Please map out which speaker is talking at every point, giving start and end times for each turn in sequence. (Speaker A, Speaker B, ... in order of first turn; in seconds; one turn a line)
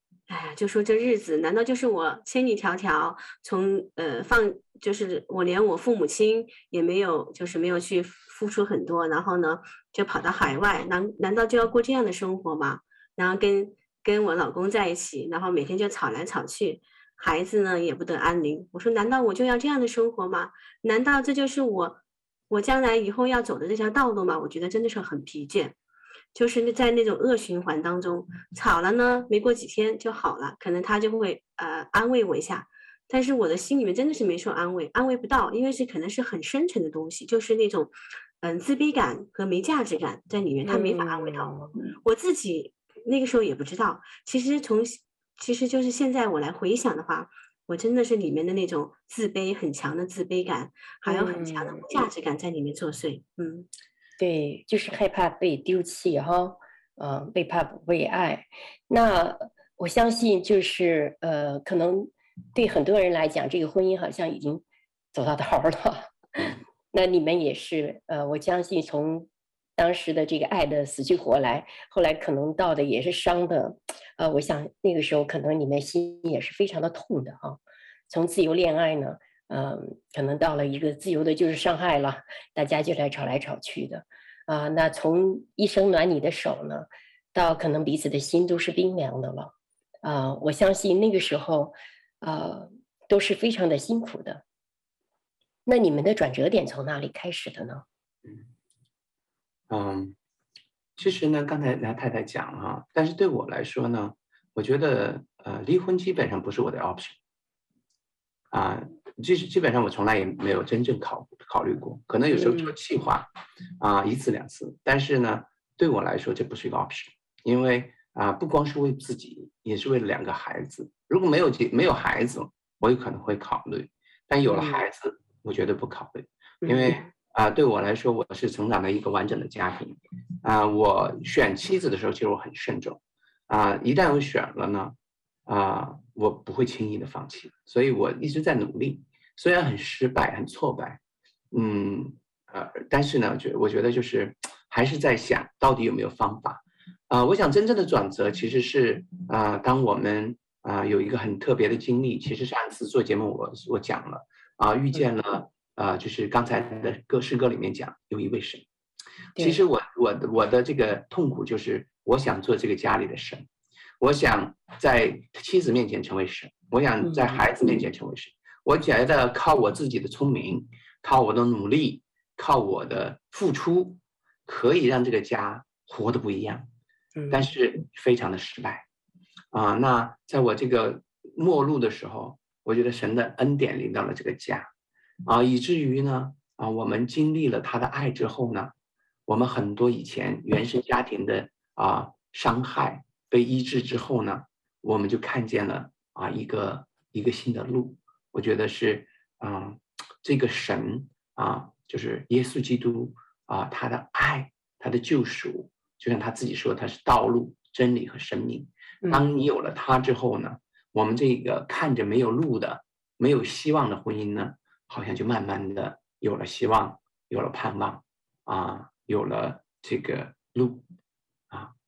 Speaker A: 0.3-25.7
Speaker A: 26.3-53.7
Speaker B: 40.6-41.8
Speaker B: 51.0-51.8
Speaker B: 54.2-94.4
Speaker B: 95.7-97.8
Speaker C: 98.2-98.5
Speaker C: 99.7-100.2
Speaker C: 101.0-107.2
Speaker C: 108.5-113.3
Speaker B: 112.3-112.7
Speaker C: 113.8-134.9
Speaker B: 124.5-124.8
Speaker B: 126.6-127.1
Speaker C: 135.5-141.0
Speaker C: 141.5-158.6
Speaker C: 159.4-163.5
Speaker C: 164.0-176.7
Speaker B: 167.0-167.4
Speaker B: 177.2-177.5
Speaker C: 177.3-178.8
Speaker C: 179.5-184.7
Speaker C: 185.2-188.7
Speaker C: 189.3-220.8